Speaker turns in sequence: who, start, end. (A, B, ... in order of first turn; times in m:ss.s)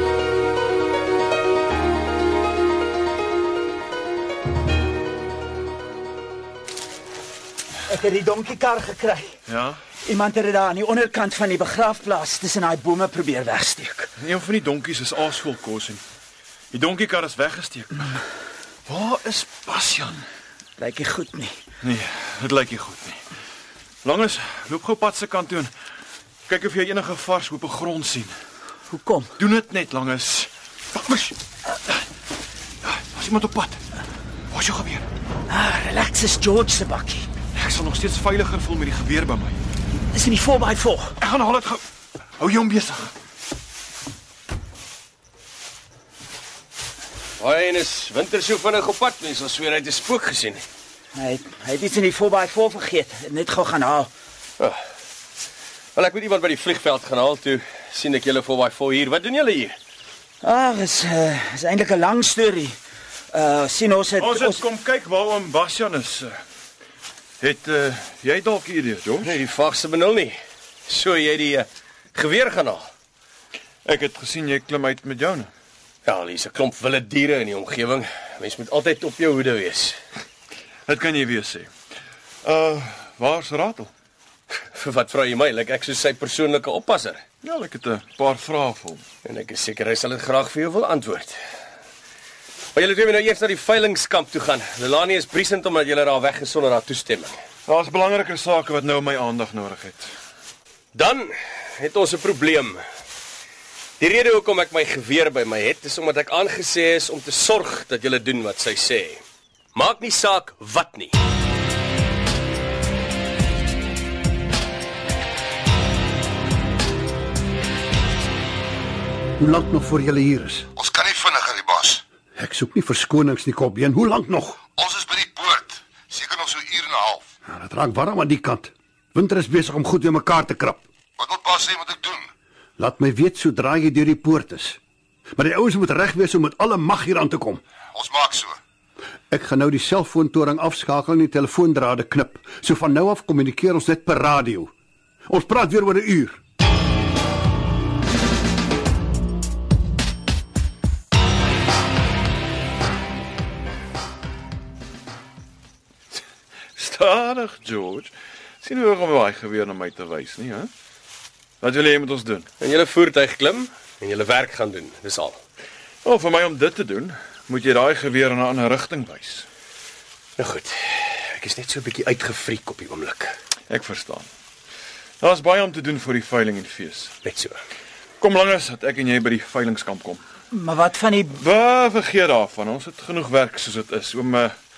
0:07.9-0:09.3 A
0:09.5-0:09.8 B
0:10.0-0:14.1 A
0:14.2-0:16.0 B
0:16.7-0:18.1 B
0:18.9-0:20.2 B
0:20.8-0:21.6 A
0:21.8-0:23.2 B
0:24.0-0:25.7 B
0:26.5-0:28.3 B
0:28.9-0:29.3 A
0:29.4-0:31.3 B
0:32.8-0:33.8 B
0:34.5-0:35.1 B
0:35.5-0:37.3 A
0:37.5-0:39.6 B
0:40.1-0:41.1 A
0:41.2-0:41.8 B
0:42.4-0:43.1 B
0:47.4-0:50.6 C
0:51.2-0:54.1 A
0:55.9-0:59.8 C
1:00.4-1:02.8 A
1:03.3-1:04.6 A
1:04.2-1:06.3 B
1:07.4-1:09.3 B
1:09.2-1:12.9 C
1:13.8-1:15.5 B
1:16.0-1:20.0 C
1:20.9-1:21.7 B
1:22.4-1:23.9 B
1:24.7-1:27.2 C
1:27.4-1:29.0 B
1:29.2-1:31.4 C
1:32.7-1:37.4 C
1:37.7-1:40.1 B
1:40.9-1:42.8 C
1:44.0-1:49.2 C
1:49.7-1:51.1 C
1:59.4-2:00.7 D
2:00.8-2:02.0 E
2:02.4-2:04.6 D
2:04.7-2:07.2 E
2:07.5-2:10.8 D
2:11.2-2:12.3 E
2:12.8-2:14.8 D
2:15.4-2:17.6 D
2:17.9-2:18.6 E
2:19.3-2:24.7 D
2:25.3-2:26.4 D
2:36.8-2:40.7 B
2:41.6-2:42.5 B
2:42.6-2:45.4 C
2:46.0-2:49.5 B
2:50.4-2:53.4 C
2:53.7-2:54.3 B
2:55.2-2:57.1 B
2:57.2-2:57.6 C
2:58.2-3:00.2 B
3:00.5-3:01.4 A
3:01.4-3:04.5 B